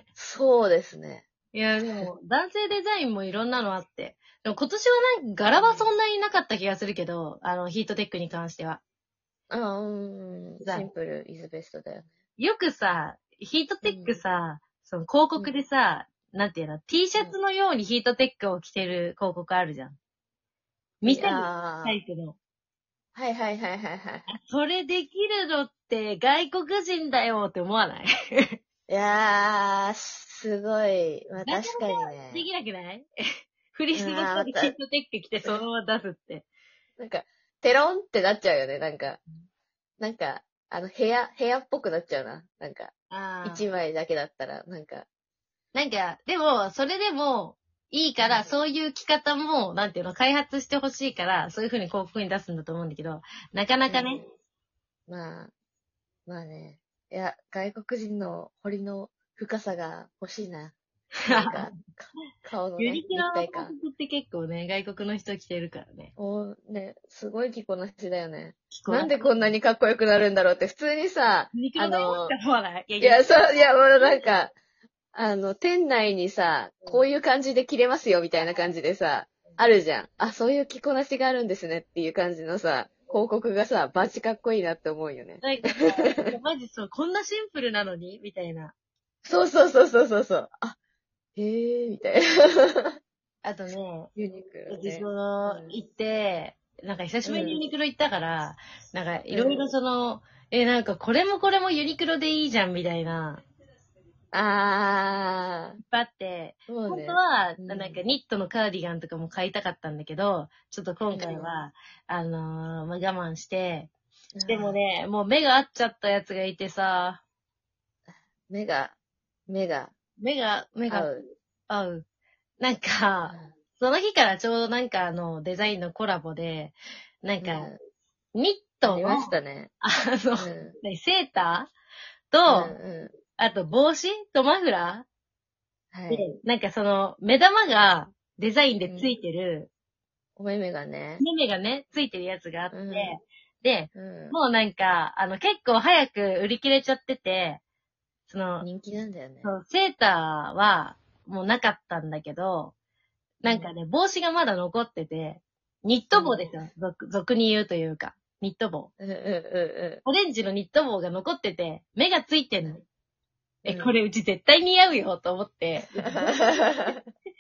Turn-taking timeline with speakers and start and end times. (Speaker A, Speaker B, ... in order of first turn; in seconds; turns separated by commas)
Speaker A: 0.2-1.2, Speaker B: 1.5-8.8, Speaker A: 5.6-5.9, Speaker A: 9.5-12.1, Speaker B: 10.6-10.9, Speaker B: 12.4-20.0, Speaker A: 13.8-14.2, Speaker B: 21.0-22.4, Speaker A: 21.1-22.0, Speaker A: 23.1-24.3, Speaker B: 24.3-28.6, Speaker A: 28.9-32.4, Speaker B: 31.4-33.1, Speaker B: 33.7-36.5, Speaker A: 33.9-34.8, Speaker A: 37.0-39.2, Speaker A: 40.0-42.9, Speaker B: 43.1-43.6, Speaker A: 43.4-45.1, Speaker B: 45.7-54.2, Speaker A: 48.2-48.5, Speaker A: 53.9-54.2, Speaker A: 55.1-55.5, Speaker A: 56.3-60.8, Speaker A: 61.3-63.8, Speaker B: 61.3-61.6, Speaker B: 62.8-66.1, Speaker A: 66.2-72.4, Speaker B: 68.7-69.4, Speaker B: 71.5-73.4, Speaker A: 73.0-74.5, Speaker B: 74.0-74.3, Speaker A: 75.1-86.3, Speaker B: 85.4-88.7, Speaker A: 89.2-90.8, Speaker A: 91.4-92.9, Speaker B: 93.4-94.1, Speaker A: 94.2-95.8, Speaker B: 94.7-103.4, Speaker A: 97.2-97.6, Speaker A: 99.3-99.6, Speaker A: 104.3-105.8, Speaker B: 105.8-113.9, Speaker A: 106.7-108.0, Speaker A: 111.1-111.5, Speaker A: 114.4-114.8, Speaker B: 114.5-117.2, Speaker A: 118.5-118.9, Speaker A: 119.5-119.9, Speaker B: 120.2-121.1, Speaker A: 120.9-121.2, Speaker B: 121.7-122.0, Speaker B: 122.6-127.7, Speaker A: 127.4-127.8, Speaker B: 128.3-131.7, Speaker A: 128.9-129.7, Speaker A: 130.4-130.8, Speaker B: 132.3-132.8, Speaker A: 132.5-133.2, Speaker B: 133.4-135.1, Speaker A: 135.9-136.3, Speaker B: 136.1-139.7, Speaker A: 140.4-141.2, Speaker B: 141.2-147.6, Speaker A: 142.7-143.2, Speaker A: 143.9-144.4, Speaker B: 148.3-148.7, Speaker A: 148.6-149.5, Speaker B: 149.4-152.7, Speaker B: 153.4-158.9, Speaker A: 153.4-153.7, Speaker A: 156.1-156.5, Speaker A: 159.0-160.0, Speaker B: 160.1-162.8, Speaker B: 163.6-166.4, Speaker A: 163.7-163.9, Speaker A: 165.9-167.0